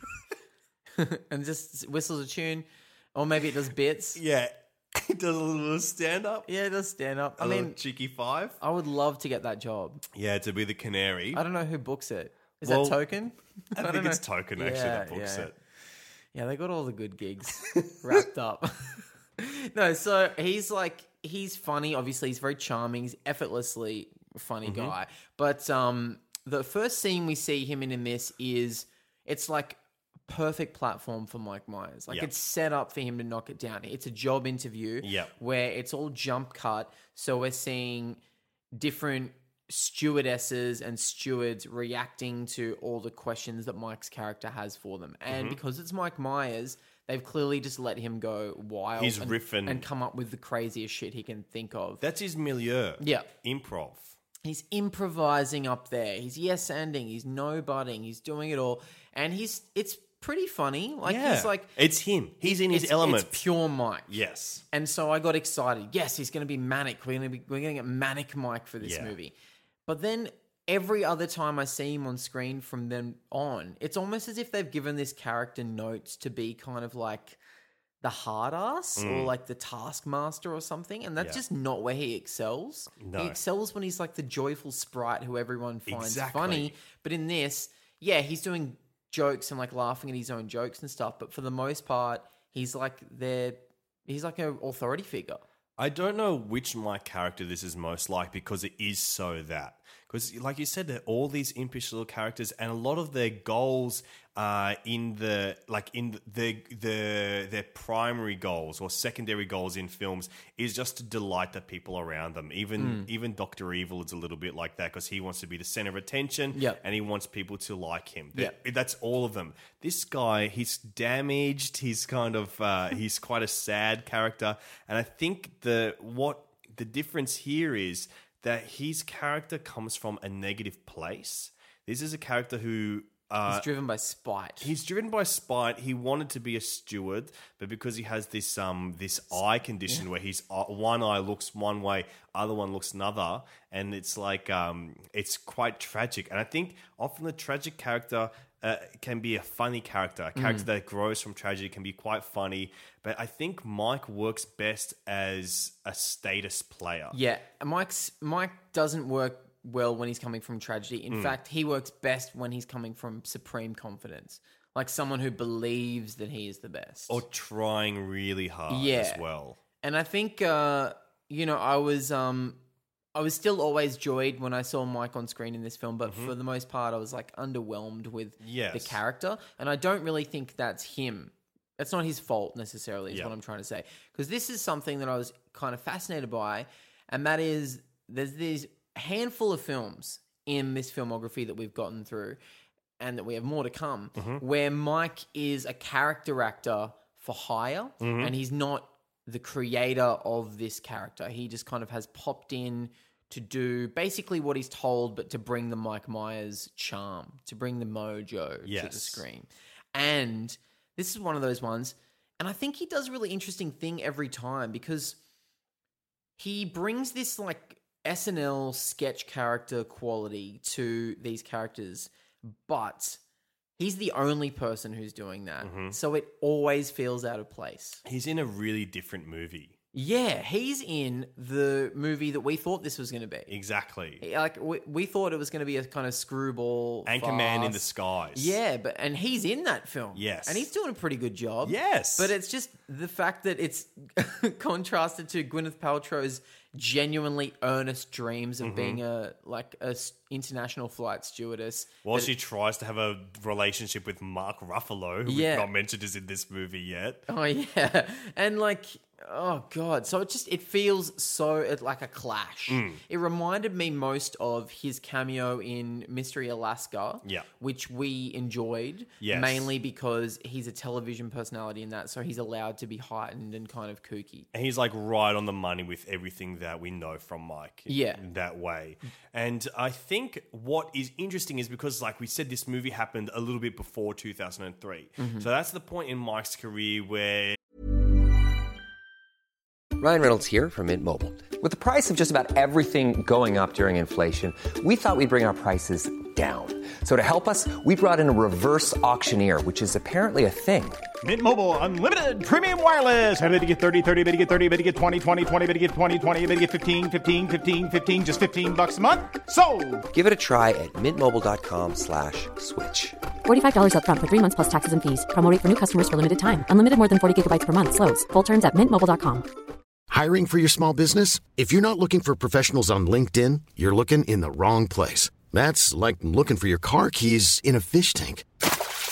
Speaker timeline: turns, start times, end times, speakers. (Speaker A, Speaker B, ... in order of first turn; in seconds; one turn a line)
Speaker A: 1.0-4.2
Speaker B: 4.2-6.5
Speaker A: 6.5-7.8
Speaker B: 7.4-8.6
Speaker A: 8.6-10.0
Speaker B: 10.1-11.4
Speaker A: 11.3-15.5
Speaker B: 12.6-13.0
Speaker B: 13.8-15.6
Speaker A: 16.3-38.2
Speaker B: 24.7-24.9
Speaker B: 35.0-35.3
Speaker A: 38.8-52.0
Speaker B: 45.3-45.6
Speaker B: 49.0-49.9
Speaker B: 52.0-54.2
Speaker A: 53.0-53.3
Speaker A: 54.4-61.7
Speaker B: 61.1-63.4
Speaker A: 62.5-64.1
Speaker B: 64.1-64.6
Speaker A: 64.7-69.3
Speaker B: 68.8-69.1
Speaker A: 69.9-77.4
Speaker A: 78.0-95.4
Speaker B: 79.0-79.3
Speaker B: 83.0-83.4
Speaker B: 85.9-86.8
Speaker B: 95.8-133.7
Speaker A: 112.8-113.1
Speaker A: 116.5-116.8
Speaker A: 133.5-134.7
Speaker B: 134.6-157.2
Speaker A: 150.4-150.7
Speaker A: 157.1-167.2
Speaker B: 161.1-161.4
Speaker B: 167.1-169.6
Speaker A: 168.7-169.2
Speaker A: 169.8-172.6
Speaker A: 173.2-192.4
Speaker B: 176.1-176.3
Speaker B: 178.4-179.0
Speaker A: 193.0-215.2
Speaker B: 194.2-194.4
Speaker B: 198.0-198.3
Speaker B: 208.7-209.2
Speaker A: 216.4-223.2
Speaker A: 223.8-228.0
Speaker B: 225.6-226.0
Speaker B: 228.1-229.8
Speaker A: 229.9-233.5
Speaker B: 233.5-234.2
Speaker A: 234.2-237.8
Speaker B: 237.1-238.6
Speaker A: 238.3-252.3
Speaker B: 240.2-240.7
Speaker B: 241.6-242.3
Speaker B: 248.6-249.0
Speaker B: 252.1-257.3
Speaker A: 255.3-255.7
Speaker A: 257.3-274.5
Speaker B: 262.7-263.0
Speaker B: 269.2-269.7
Speaker B: 274.5-287.6
Speaker A: 277.9-278.2
Speaker A: 285.2-285.5
Speaker C: 290.0-301.1
Speaker D: 301.2-310.1
Speaker C: 310.1-313.2
Speaker E: 313.4-319.5
Speaker F: 320.1-328.5